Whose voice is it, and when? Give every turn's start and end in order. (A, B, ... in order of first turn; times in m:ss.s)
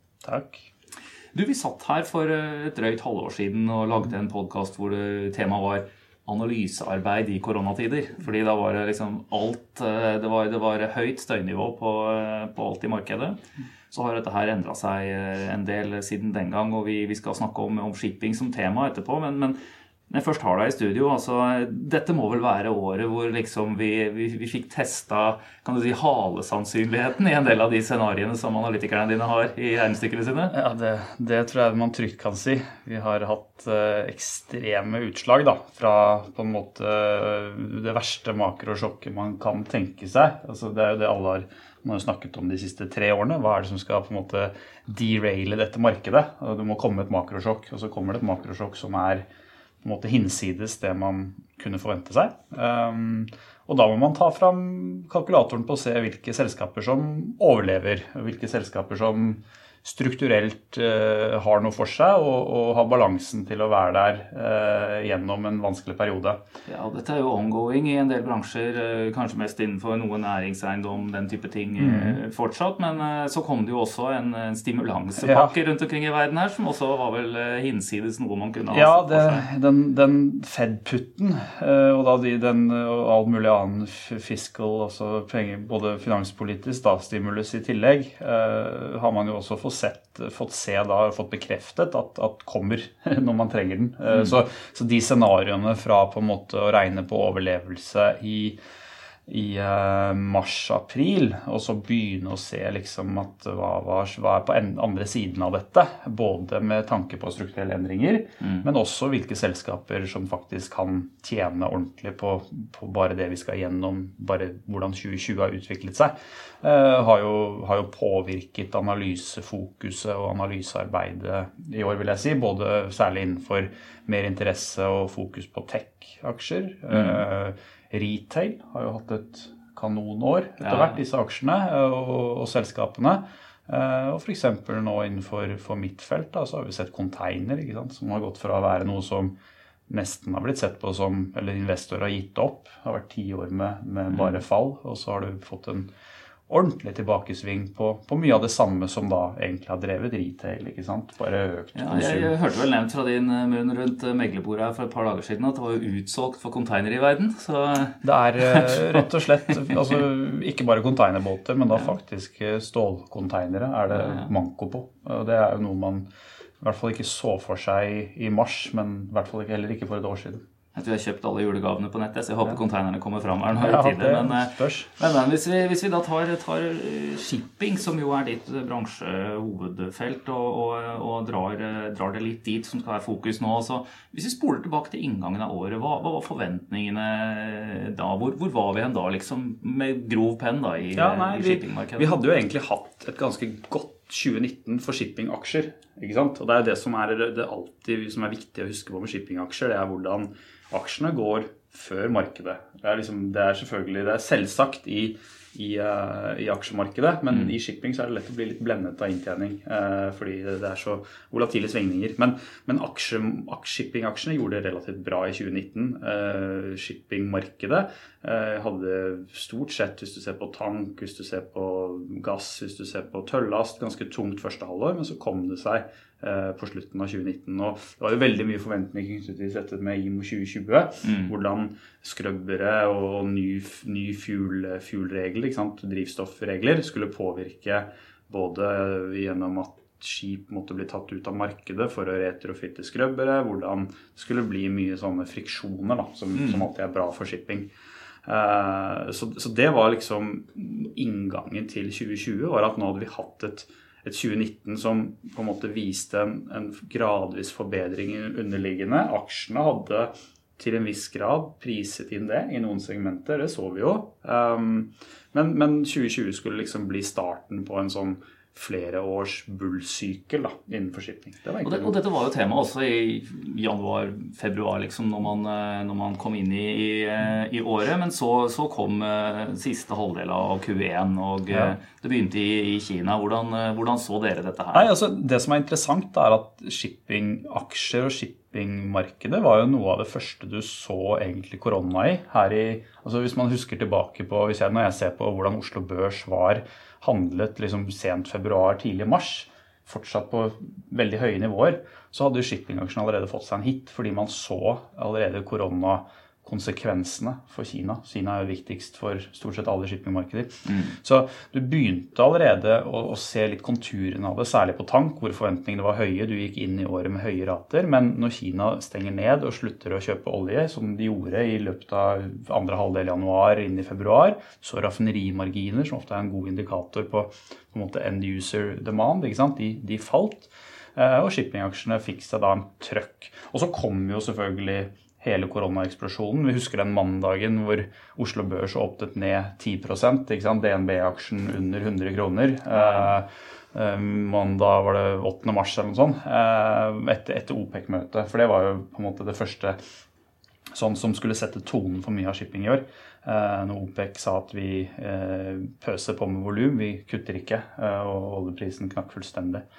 0:00.2-0:00.7 A
0:01.3-0:13.4 B
0:13.9-0:19.6 B
0:20.1-0:30.5 B
0:30.5-0:49.2 A
0:49.8-1:06.4 A
1:06.7-1:19.5 B
1:11.8-1:12.2 A
1:15.2-1:15.6 A
1:18.7-1:38.6 A
1:39.3-2:19.3 A
1:48.4-1:48.7 B
2:06.9-2:07.2 B
2:10.6-2:11.0 B
2:19.9-2:25.9 A
2:24.1-2:24.4 B
2:26.5-2:32.3 A
2:31.8-2:39.5 B
2:38.0-2:46.1 A
2:43.9-2:44.3 B
2:46.6-2:50.4 A
2:50.8-3:12.2 B
2:53.5-2:55.0 A
3:11.0-4:07.7 A
3:51.0-3:51.3 B
4:06.4-4:06.7 B
4:08.2-4:32.0 A
4:31.6-4:44.9 B
4:41.5-4:41.8 A
4:44.7-5:49.8 A
5:10.7-5:11.0 B
5:42.7-5:43.2 B
5:50.8-5:59.6 A